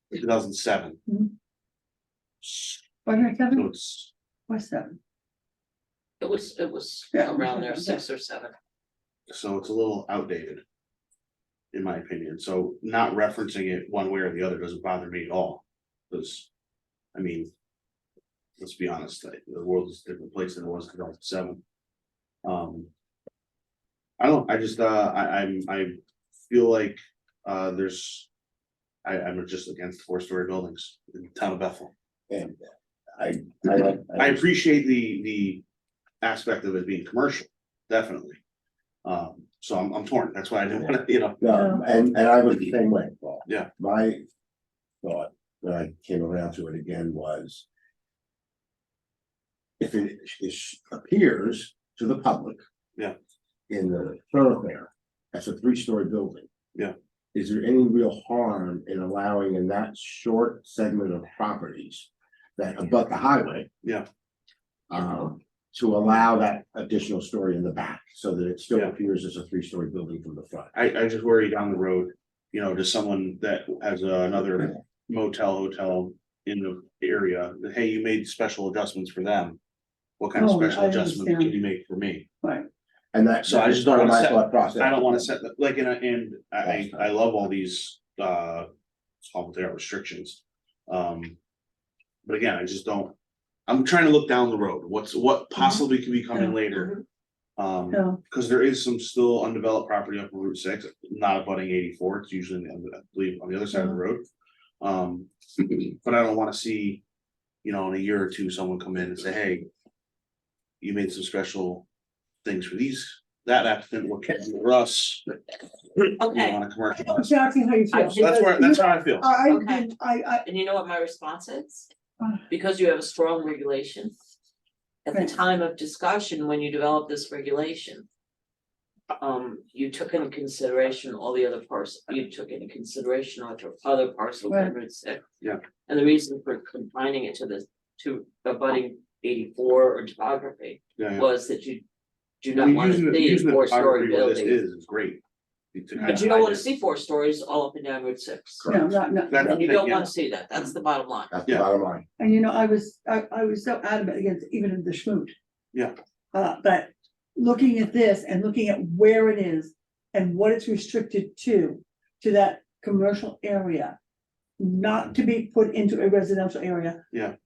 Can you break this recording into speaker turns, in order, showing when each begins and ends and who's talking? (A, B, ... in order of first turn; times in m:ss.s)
0:00.1-0:01.0 A
0:01.1-0:01.3 B
0:02.4-0:02.8 A
0:03.0-0:03.7 B
0:03.5-0:04.1 A
0:04.5-0:05.0 B
0:06.2-0:08.5 C
0:07.1-0:08.0 B
0:09.3-0:10.6 A
0:11.7-0:16.5 A
0:17.1-0:17.5 A
0:18.6-0:21.6 A
0:22.4-0:22.9 A
0:24.2-0:28.3 A
0:29.0-0:31.9 A
0:32.3-0:34.4 D
0:34.2-0:35.6 A
0:36.2-0:38.4 A
0:39.0-0:41.4 A
0:41.4-0:44.2 D
0:41.5-0:41.8 B
0:45.0-0:47.6 D
0:49.8-0:52.6 D
0:53.7-0:56.5 D
0:57.3-1:03.7 D
1:04.9-1:10.7 D
1:10.7-1:19.6 A
1:20.2-1:22.2 A
1:20.4-1:21.5 B
1:23.1-1:25.3 D
1:23.4-1:28.7 A
1:26.6-1:27.1 D
1:29.2-1:31.4 A
1:32.2-1:33.1 A
1:33.7-1:36.9 A
1:35.6-1:36.6 B
1:37.6-1:44.2 A
1:37.9-1:38.2 B
1:43.7-1:44.0 B
1:44.8-1:47.0 A
1:47.6-1:49.7 A
1:50.8-1:51.8 A
1:52.4-1:55.2 A
1:56.2-1:56.6 C
1:56.3-1:57.4 A
1:57.0-2:00.4 B
1:57.9-1:58.4 C
1:58.1-1:59.3 A
1:59.4-1:59.9 C
2:00.4-2:01.9 C
2:02.5-2:04.1 C
2:05.0-2:08.1 C
2:09.2-2:15.2 C
2:14.5-2:14.7 B
2:15.9-2:21.8 C
2:21.0-2:21.2 A
2:22.4-2:24.6 C
2:22.5-2:25.2 A
2:25.7-2:26.6 A
2:26.0-2:28.6 C
2:28.6-2:28.9 D
2:28.7-2:30.0 B
2:29.3-2:30.1 A
2:29.4-2:31.3 C
2:31.3-2:32.0 D
2:32.2-2:35.3 B
2:36.3-2:44.0 B
2:44.6-2:47.0 B